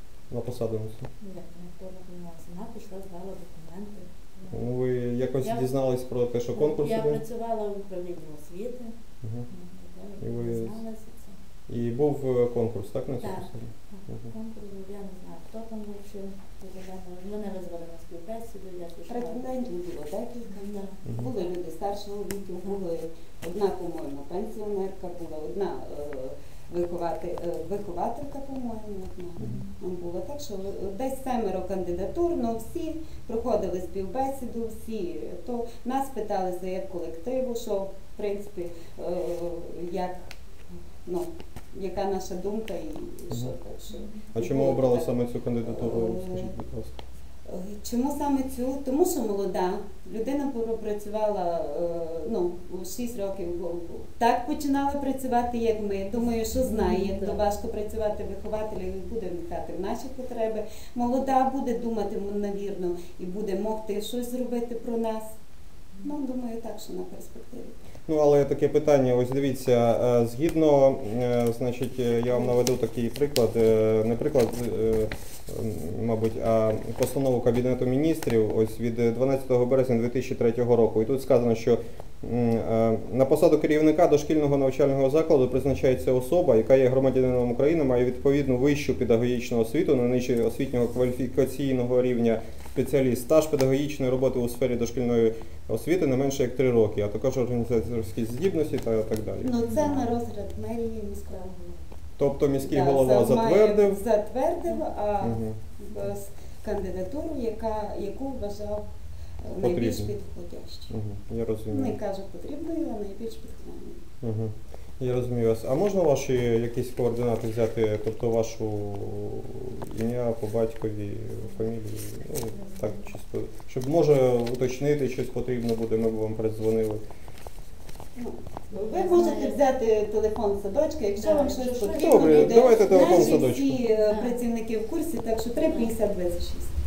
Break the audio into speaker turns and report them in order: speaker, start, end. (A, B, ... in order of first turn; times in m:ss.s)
0:00.3-0:01.1 A
0:01.2-0:04.7 B
0:04.5-0:07.2 A
0:05.4-0:05.7 B
0:06.5-0:11.4 B
0:09.2-0:09.5 A
0:10.2-0:10.8 A
0:11.7-0:14.3 A
0:13.2-0:19.5 B
0:19.1-0:40.3 C
0:20.5-0:21.6 B
0:29.4-0:29.7 A
0:29.4-0:29.7 B
0:41.0-0:46.5 C
0:43.9-0:44.2 B
0:44.3-0:47.0 A
0:47.5-1:05.2 C
0:56.5-0:57.4 B
1:06.0-1:07.8 C
1:08.1-1:39.6 A
1:39.4-1:41.5 C
1:39.6-1:40.1 B
1:41.3-1:41.8 B
1:42.2-1:44.0 A
1:42.6-1:48.8 C
1:45.2-1:46.1 A
1:49.4-1:50.9 C
1:49.6-1:50.1 A
1:50.9-1:52.0 A
1:51.7-1:54.0 C
1:54.2-2:07.0 A
2:02.5-2:03.1 B
2:08.2-2:16.7 C
2:08.7-2:09.6 B
2:11.2-2:14.4 B
2:12.0-2:13.8 A
2:15.6-2:16.0 B